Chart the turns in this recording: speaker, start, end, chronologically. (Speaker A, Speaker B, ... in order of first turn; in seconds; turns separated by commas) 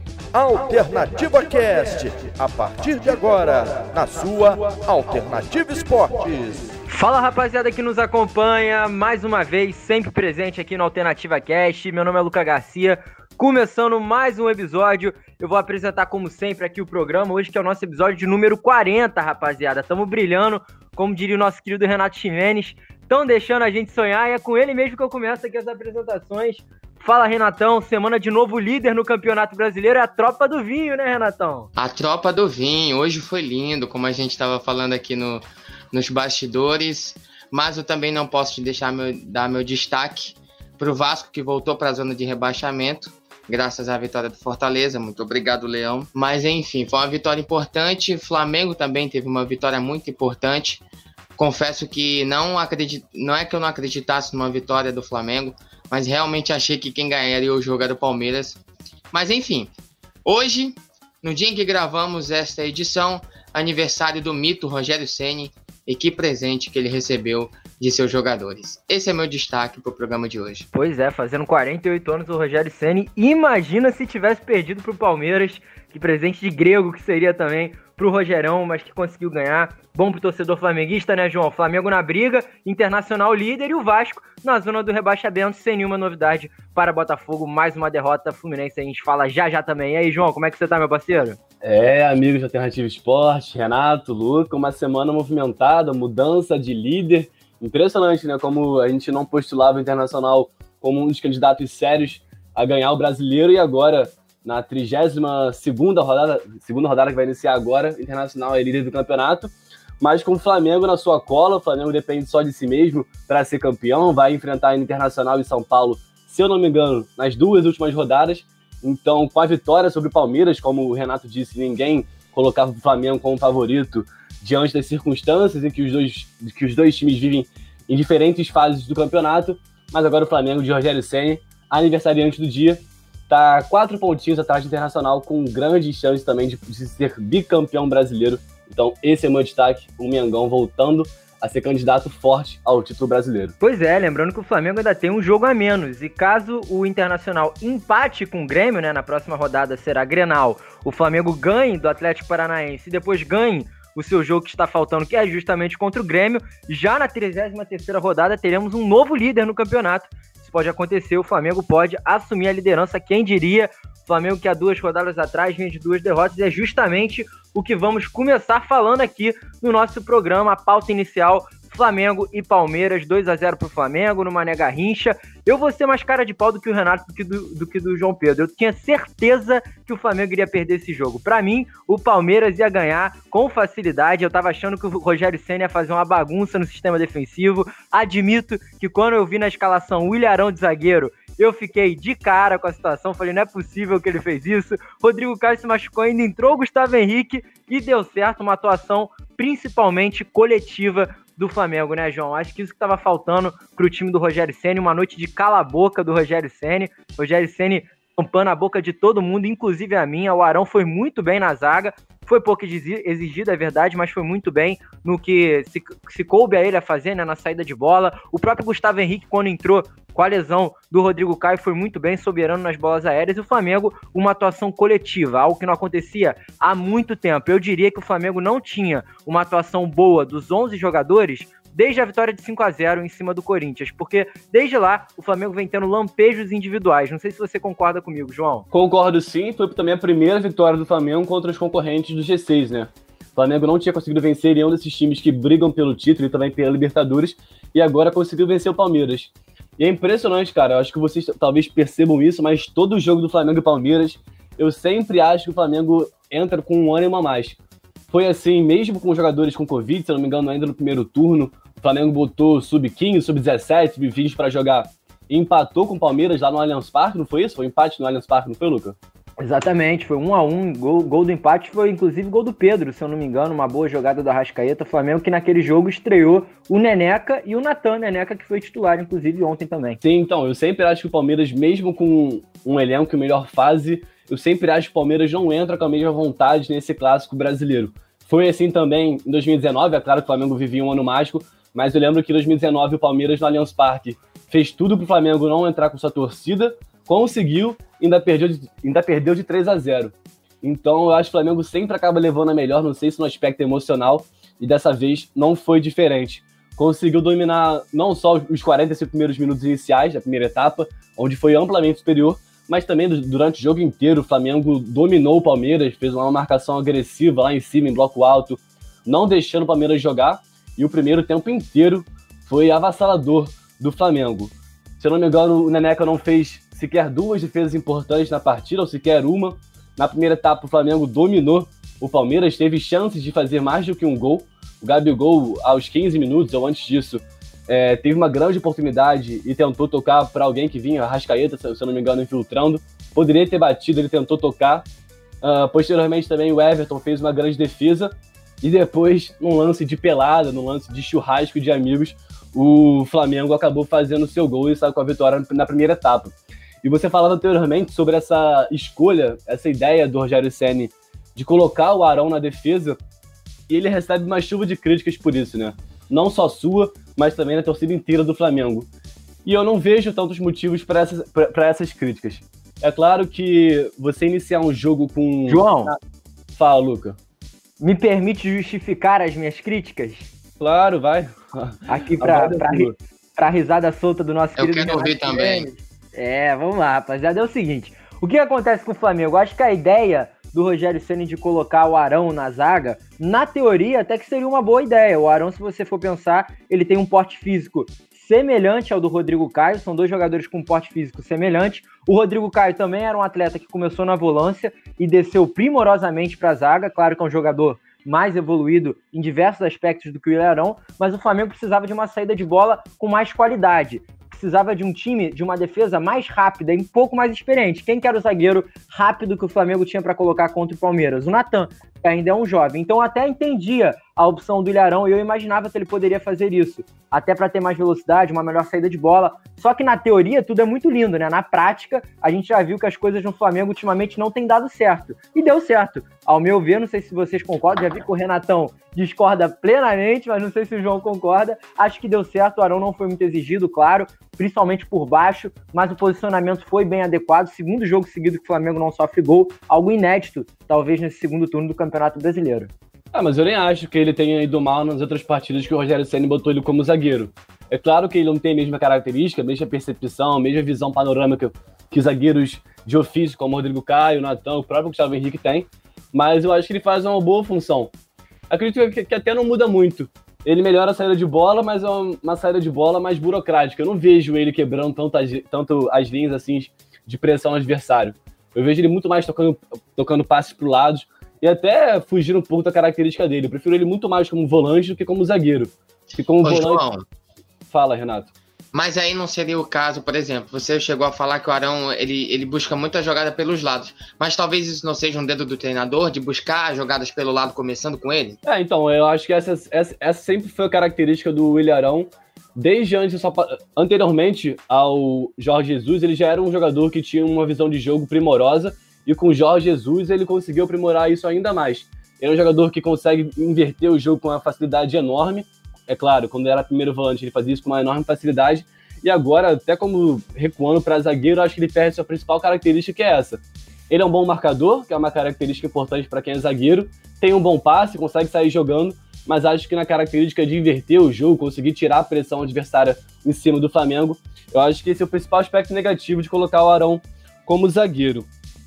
Speaker A: 0.3-6.7, Speaker B: 6.9-31.7, Speaker C: 31.8-50.8, Speaker C: 51.4-58.6, Speaker C: 59.1-59.7, Speaker C: 60.2-70.7, Speaker B: 70.7-91.4, Speaker D: 91.6-143.6, Speaker B: 143.6-238.7, Speaker D: 238.7-257.6, Speaker D: 258.1-269.0, Speaker B: 269.4-280.0, Speaker D: 280.0-344.9, Speaker D: 345.4-363.0, Speaker D: 363.7-368.9, Speaker D: 369.4-376.0, Speaker B: 375.5-375.9, Speaker D: 376.6-377.2, Speaker B: 377.8-380.3, Speaker D: 380.6-382.9, Speaker B: 381.9-452.7, Speaker C: 384.6-385.7, Speaker D: 453.1-467.9, Speaker D: 468.5-486.8, Speaker C: 486.4-487.0, Speaker D: 487.7-488.3, Speaker C: 488.7-498.4, Speaker D: 498.4-538.3